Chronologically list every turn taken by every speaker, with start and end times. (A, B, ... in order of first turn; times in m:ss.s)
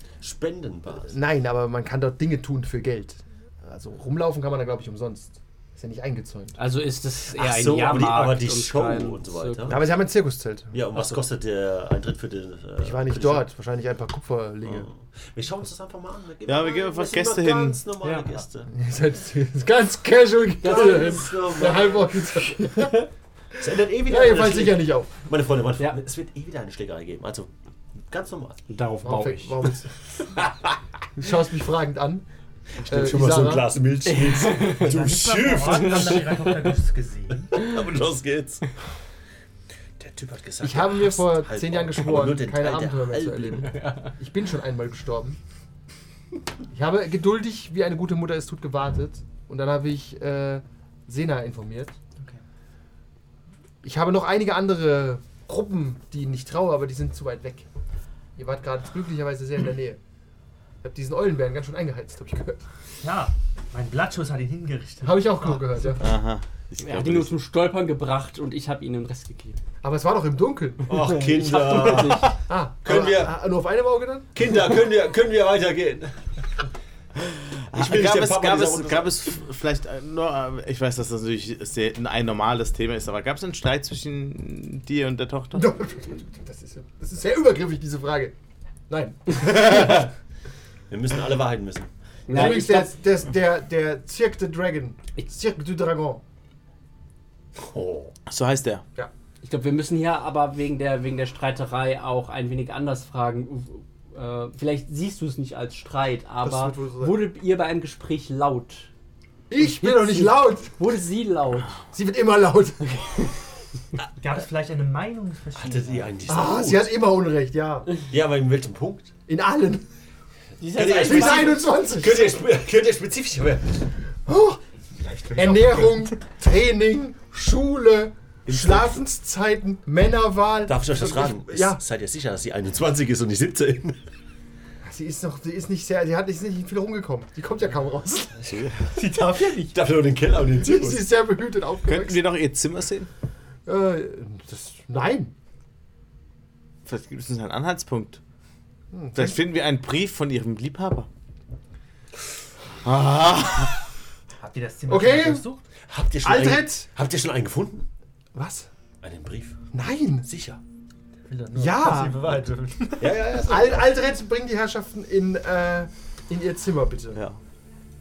0:00.2-0:01.2 A
0:01.0-0:06.6 B
0:06.6-0:09.8 C
0:07.3-0:09.9 A
0:09.7-0:10.8 B
0:10.7-0:13.4 A
0:12.8-0:14.9 B
0:14.6-0:18.7 A
0:16.4-0:17.8 D
0:18.0-0:18.3 C
0:18.7-0:23.1 B
0:20.6-0:21.9 C
0:20.6-0:22.2 A
0:22.5-0:23.0 C
0:23.6-0:27.5 A
0:23.9-0:25.1 B
0:28.1-0:28.6 A
0:28.7-0:29.6 C
0:29.0-0:29.9 B
0:31.2-0:32.2 B
0:32.8-0:36.4 A
0:32.9-0:33.7 B
0:34.0-0:35.0 C
0:34.7-0:37.6 E
0:37.5-0:38.6 A
0:40.0-0:43.8 A
0:40.6-0:45.4 B
0:43.7-0:44.1 C
0:46.7-0:52.0 B
0:53.8-0:57.7 B
0:58.4-1:00.0 B
1:00.8-1:02.6 B
1:03.0-1:05.7 E
1:05.0-1:06.1 B
1:06.0-1:07.3 D
1:06.8-1:09.6 C
1:09.8-1:11.0 B
1:10.8-1:13.4 A
1:11.0-1:12.4 C
1:11.9-1:14.3 B
1:14.3-1:16.2 A
1:17.2-1:25.7 D
1:17.7-1:19.2 A
1:25.5-1:28.3 B
1:28.9-1:30.1 B
1:30.9-1:31.9 A
1:32.3-1:32.9 C
1:32.3-1:36.2 B
1:37.6-1:38.1 A
1:38.3-1:38.8 D
1:39.4-1:48.9 C
1:46.4-1:47.2 B
1:49.5-1:50.7 B
1:49.8-1:51.8 C
1:51.9-1:53.3 B
1:54.2-1:56.4 E
1:55.6-1:56.9 A
1:56.3-1:58.0 B
1:58.0-1:59.1 A
1:59.3-1:59.8 B
2:00.6-2:01.7 C
2:00.6-2:03.8 A
2:00.8-2:02.4 B
2:04.2-2:04.6 B
2:05.0-2:06.1 E
2:05.3-2:11.8 B
2:08.4-2:09.0 A
2:10.7-2:14.0 A
2:14.8-2:18.6 B
2:18.5-2:18.8 D
2:18.9-2:19.8 E
2:19.7-2:21.1 A
2:20.5-2:22.2 B
2:21.8-2:23.1 D
2:23.6-2:25.3 B
2:26.8-2:28.2 D
2:28.9-2:29.4 B
2:29.1-2:31.1 D
2:32.8-2:33.8 D
2:34.4-2:35.6 E
2:34.9-2:35.4 B
2:35.9-2:37.9 A
2:36.2-2:36.8 B
2:38.3-2:38.7 B
2:39.0-2:39.6 A
2:39.7-2:40.3 B
2:40.2-2:40.6 A
2:41.2-2:43.0 E
2:41.5-2:47.2 B
2:43.0-2:44.0 A
2:47.1-2:47.4 D